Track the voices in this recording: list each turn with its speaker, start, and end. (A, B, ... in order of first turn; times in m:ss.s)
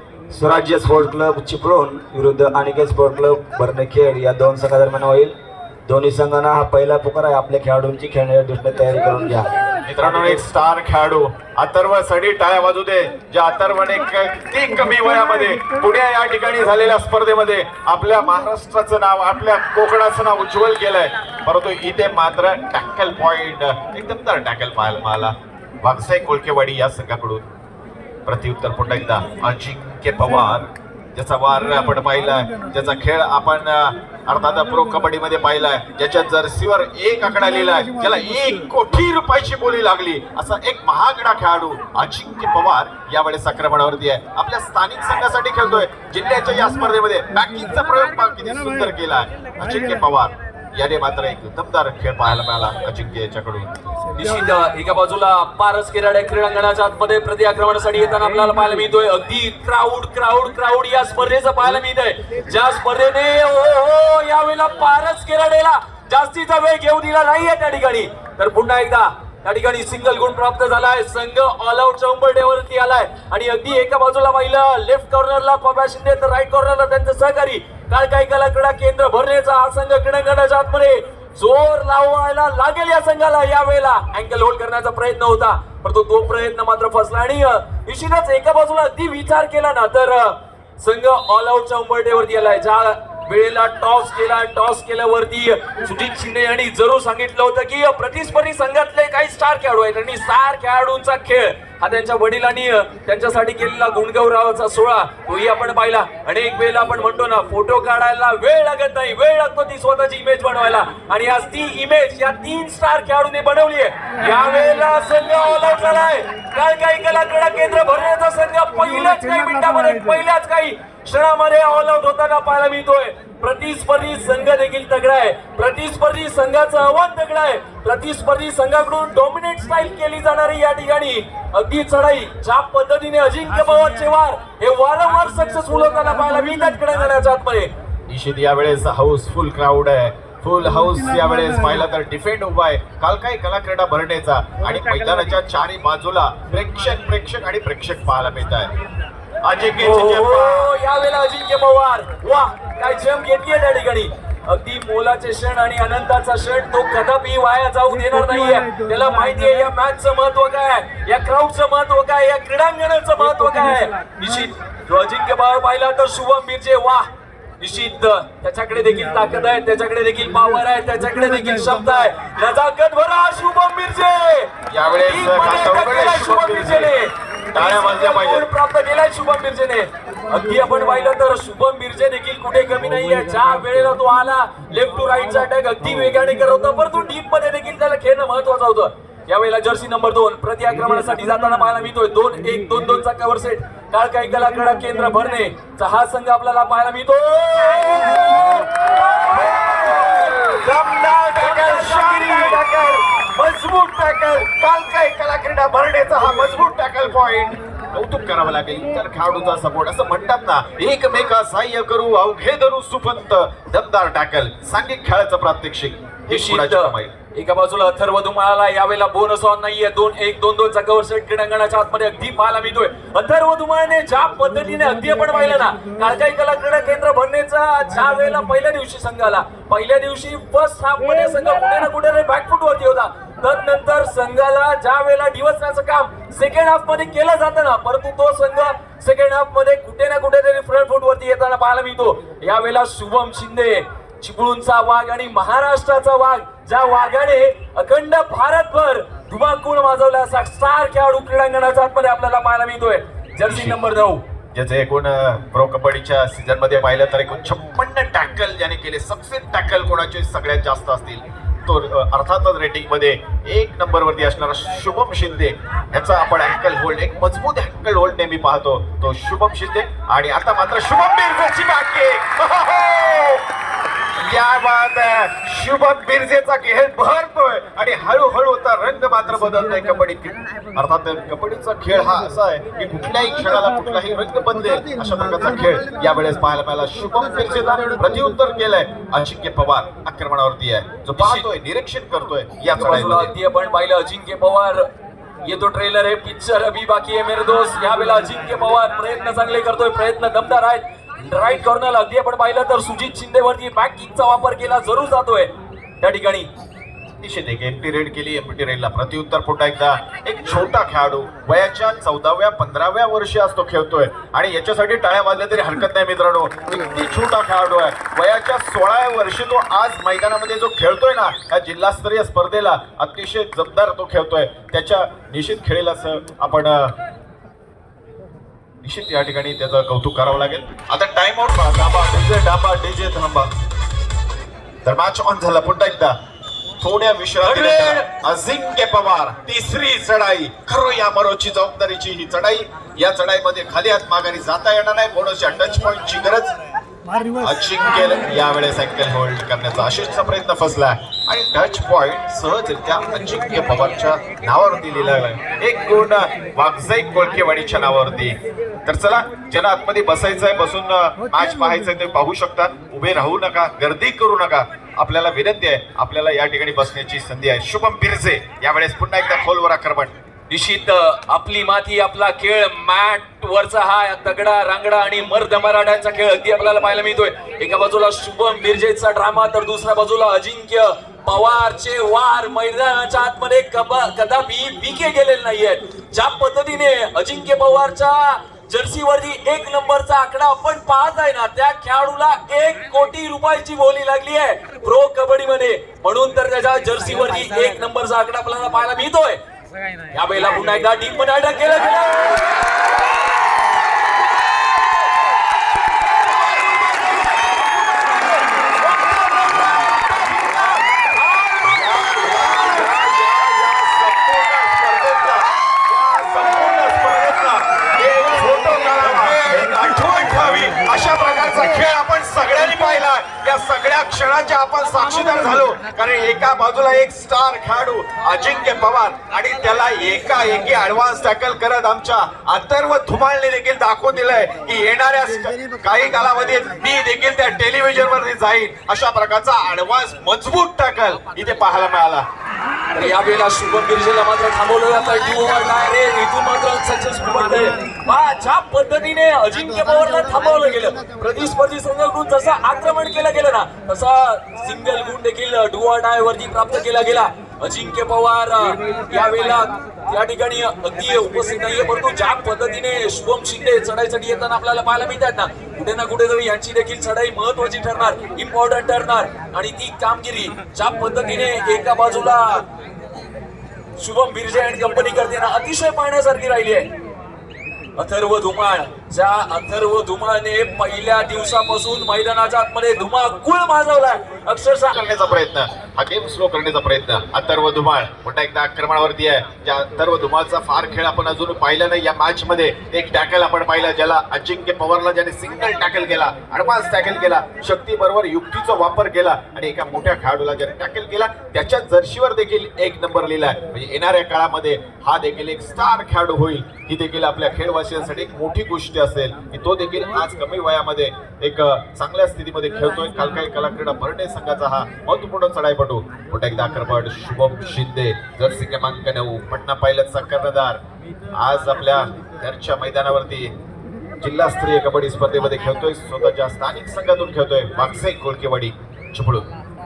0:00.3-0:10.4 A
0:09.9-0:27.4 B
0:14.8-0:15.7 C
0:28.3-0:53.7 B
0:31.6-0:32.7 C
0:37.4-0:38.6 C
0:48.5-0:48.9 C
0:54.1-0:54.6 C
0:54.2-2:17.7 D
1:58.8-2:00.2 C
2:13.6-2:14.1 C
2:15.4-2:16.9 C
2:18.1-2:28.7 B
2:20.7-2:21.8 C
2:29.4-2:30.7 B
2:29.8-2:47.1 D
2:37.9-2:39.6 C
2:43.3-2:44.5 C
2:47.6-2:54.5 D
2:51.0-2:52.1 C
2:54.7-2:56.9 B
2:55.0-3:20.7 D
2:57.5-2:58.5 B
3:18.4-3:37.1 B
3:21.4-3:22.6 D
3:36.3-4:14.2 D
3:44.9-3:45.9 C
3:48.1-3:48.4 C
4:13.5-4:13.8 B
4:14.5-4:33.5 B
4:34.2-4:53.3 B
4:51.2-4:51.5 D
4:52.8-4:54.9 D
4:55.4-5:06.5 D
5:07.2-5:26.9 B
5:28.8-5:33.5 B
5:34.8-5:36.2 B
5:36.8-5:46.5 B
5:37.4-5:38.1 D
5:47.1-5:47.4 C
5:47.4-6:10.2 B
6:01.3-6:01.9 C
6:10.5-6:39.4 D
6:40.1-6:42.7 D
6:46.2-6:53.3 D
6:51.7-7:22.3 B
7:22.9-7:52.6 D
7:54.0-7:56.9 D
7:58.0-8:05.0 D
8:04.9-8:40.8 B
8:41.4-8:43.5 B
8:44.2-8:49.5 B